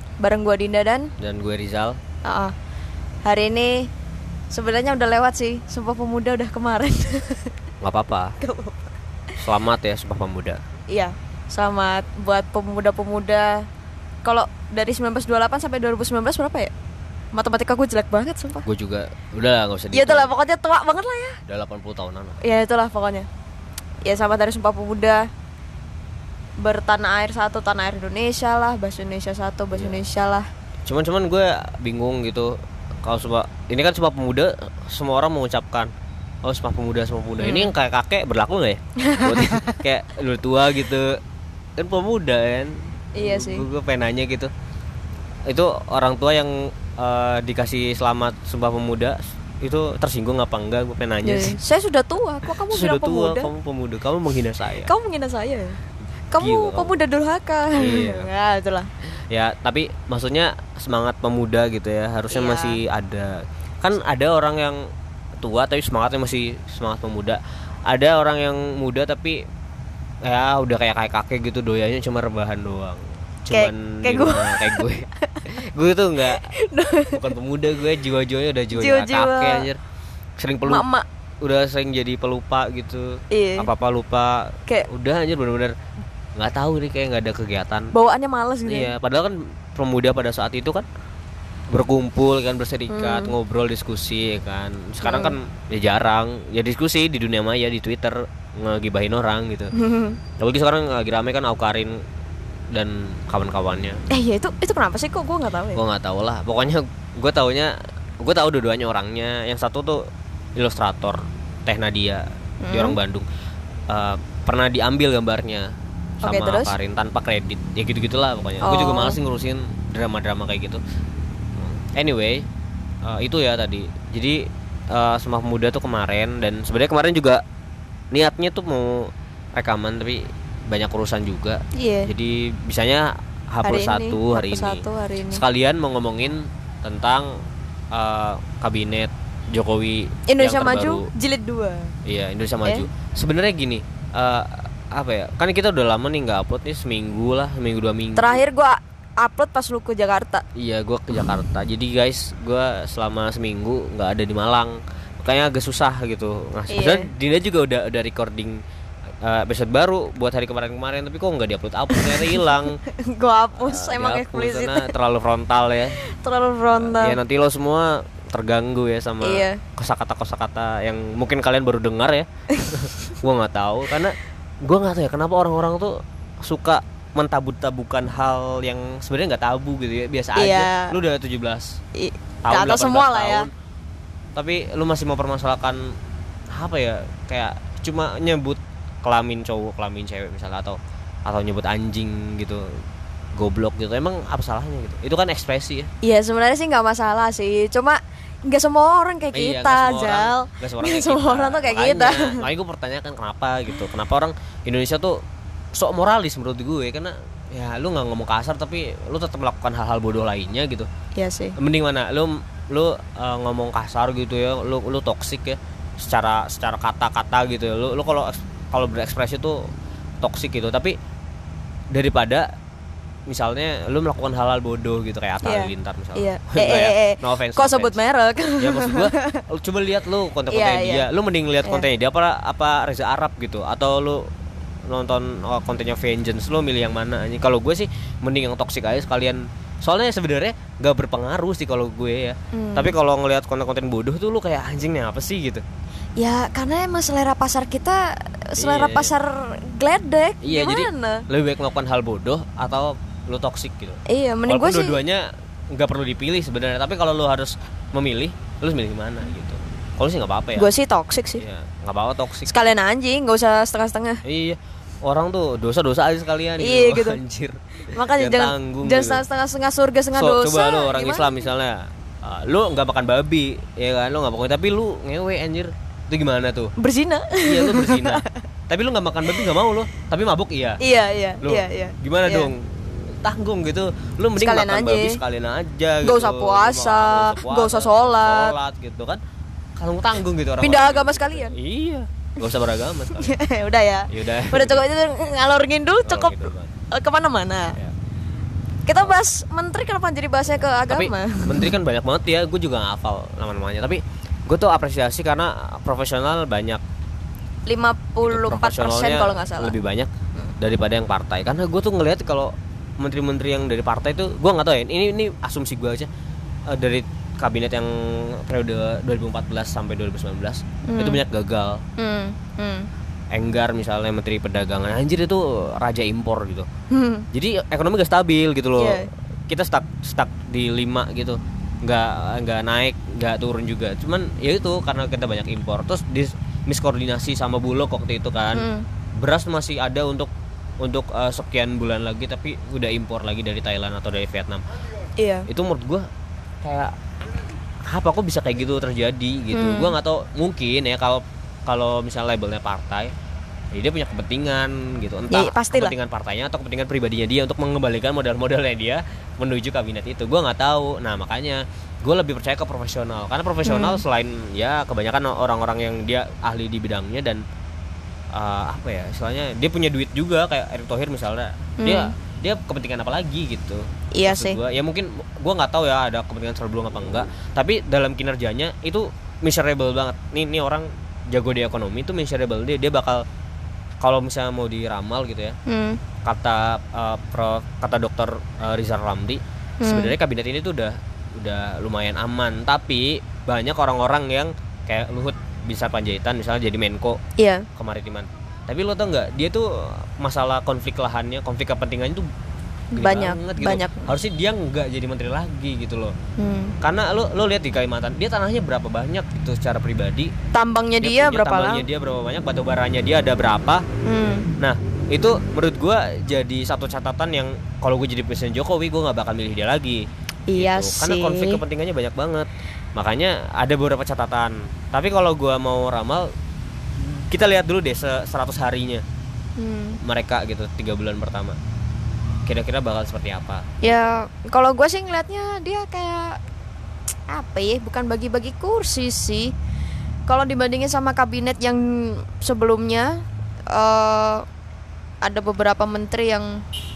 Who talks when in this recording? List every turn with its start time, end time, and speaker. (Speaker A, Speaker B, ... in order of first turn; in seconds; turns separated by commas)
Speaker A: 0.2-1.1, Speaker B: 1.2-2.0, Speaker A: 2.2-2.5, Speaker A: 3.2-3.9, Speaker A: 4.5-7.5, Speaker B: 7.8-8.4, Speaker A: 8.4-8.9, Speaker B: 9.4-10.6, Speaker A: 10.9-13.7, Speaker A: 14.2-16.7, Speaker A: 17.3-18.7, Speaker B: 18.6-20.3, Speaker A: 19.9-21.4, Speaker B: 21.5-22.4, Speaker A: 22.4-23.3, Speaker A: 24.1-25.3, Speaker A: 26.6-30.5, Speaker B: 29.7-30.0, Speaker B: 30.9-35.9, Speaker B: 36.4-41.2, Speaker A: 37.4-37.7, Speaker A: 39.0-39.8, Speaker B: 41.8-44.5, Speaker A: 43.2-43.6, Speaker B: 45.5-51.6, Speaker A: 51.2-53.5, Speaker B: 52.7-54.9, Speaker A: 54.9-55.8, Speaker A: 56.3-58.9, Speaker B: 56.4-57.0, Speaker B: 57.8-58.3, Speaker B: 59.3-64.8, Speaker A: 62.3-62.8, Speaker B: 65.4-69.4, Speaker B: 70.2-76.5, Speaker A: 73.5-75.5, Speaker A: 76.2-77.3, Speaker B: 77.1-79.8, Speaker A: 78.7-79.7, Speaker B: 80.4-80.9, Speaker A: 80.7-81.0, Speaker B: 81.4-85.8, Speaker A: 83.3-83.7, Speaker B: 86.4-87.9, Speaker A: 87.9-88.9, Speaker B: 88.7-90.9, Speaker B: 91.7-99.7, Speaker A: 92.9-93.3, Speaker A: 95.0-95.4, Speaker A: 99.8-100.2, Speaker B: 100.4-102.0, Speaker B: 102.7-104.0, Speaker A: 104.1-105.8, Speaker B: 105.7-113.3, Speaker A: 112.6-113.0, Speaker B: 113.9-115.7, Speaker A: 116.2-116.7, Speaker B: 116.2-120.8, Speaker A: 118.6-119.2, Speaker B: 121.6-122.5, Speaker B: 123.0-127.4, Speaker B: 128.1-137.3, Speaker A: 131.7-132.1, Speaker A: 133.6-135.4, Speaker B: 137.9-141.1, Speaker A: 140.3-141.9, Speaker B: 142.1-148.4, Speaker A: 148.2-150.4, Speaker B: 150.6-158.6, Speaker A: 156.7-157.1, Speaker B: 159.2-162.8, Speaker A: 161.9-164.9, Speaker B: 163.6-166.0, Speaker A: 166.0-167.2, Speaker B: 166.7-181.8, Speaker A: 169.2-169.6, Speaker A: 180.4-181.0, Speaker A: 182.0-183.5, Speaker B: 182.4-183.5, Speaker B: 184.3-185.8, Speaker B: 186.5-192.8, Speaker B: 193.3-195.9, Speaker A: 196.0-202.5, Speaker B: 199.3-205.2, Speaker B: 205.7-210.9, Speaker A: 211.2-211.6, Speaker B: 211.6-219.7, Speaker B: 220.2-221.0, Speaker B: 221.9-222.5, Speaker B: 223.3-228.0, Speaker A: 225.4-229.4, Speaker B: 228.6-234.2, Speaker A: 230.5-231.1, Speaker B: 234.9-245.6, Speaker A: 242.5-242.9, Speaker A: 246.2-251.3, Speaker B: 248.6-249.1, Speaker B: 250.4-260.7, Speaker A: 254.1-255.0, Speaker A: 260.6-261.4, Speaker B: 261.4-262.6, Speaker A: 262.5-264.2, Speaker B: 264.2-269.2, Speaker A: 266.6-267.2, Speaker A: 267.9-271.4, Speaker B: 270.1-276.7, Speaker A: 276.8-278.4, Speaker B: 277.4-280.8, Speaker A: 280.8-282.5, Speaker B: 281.4-289.2, Speaker A: 284.4-285.2, Speaker A: 286.0-288.6, Speaker B: 289.8-293.3, Speaker A: 290.6-291.6, Speaker A: 293.2-297.8, Speaker B: 294.1-294.8, Speaker B: 296.0-296.7, Speaker A: 298.9-301.7, Speaker B: 300.9-306.8, Speaker A: 307.7-309.8, Speaker B: 308.2-316.1, Speaker B: 316.7-321.8, Speaker A: 320.9-321.2, Speaker A: 322.0-322.9, Speaker B: 323.3-326.7, Speaker A: 326.9-327.3, Speaker B: 327.3-338.7, Speaker A: 328.8-329.1, Speaker A: 338.5-338.9, Speaker B: 339.2-344.6, Speaker A: 345.2-345.5, Speaker B: 345.5-346.1, Speaker B: 346.6-346.9, Speaker B: 347.9-353.1, Speaker A: 349.5-349.9, Speaker B: 353.7-367.4, Speaker A: 355.3-355.9, Speaker A: 363.6-364.0, Speaker B: 368.3-383.2, Speaker A: 371.8-372.1, Speaker A: 374.1-374.6, Speaker B: 384.0-385.6, Speaker A: 385.7-386.0, Speaker B: 386.2-397.2, Speaker A: 389.8-390.1, Speaker A: 397.4-397.7, Speaker B: 397.8-402.3, Speaker A: 402.9-404.1, Speaker B: 403.0-406.2, Speaker A: 406.4-406.8, Speaker B: 406.8-410.3, Speaker A: 410.5-411.9, Speaker B: 411.0-413.8, Speaker A: 414.1-414.5, Speaker B: 414.6-420.0, Speaker A: 420.5-421.6, Speaker B: 420.5-426.3, Speaker B: 427.0-429.0, Speaker A: 429.6-430.0, Speaker B: 430.0-431.6, Speaker B: 432.5-434.1, Speaker A: 433.8-436.4, Speaker A: 437.3-439.5, Speaker A: 440.3-443.2, Speaker A: 443.7-444.4, Speaker A: 445.2-446.6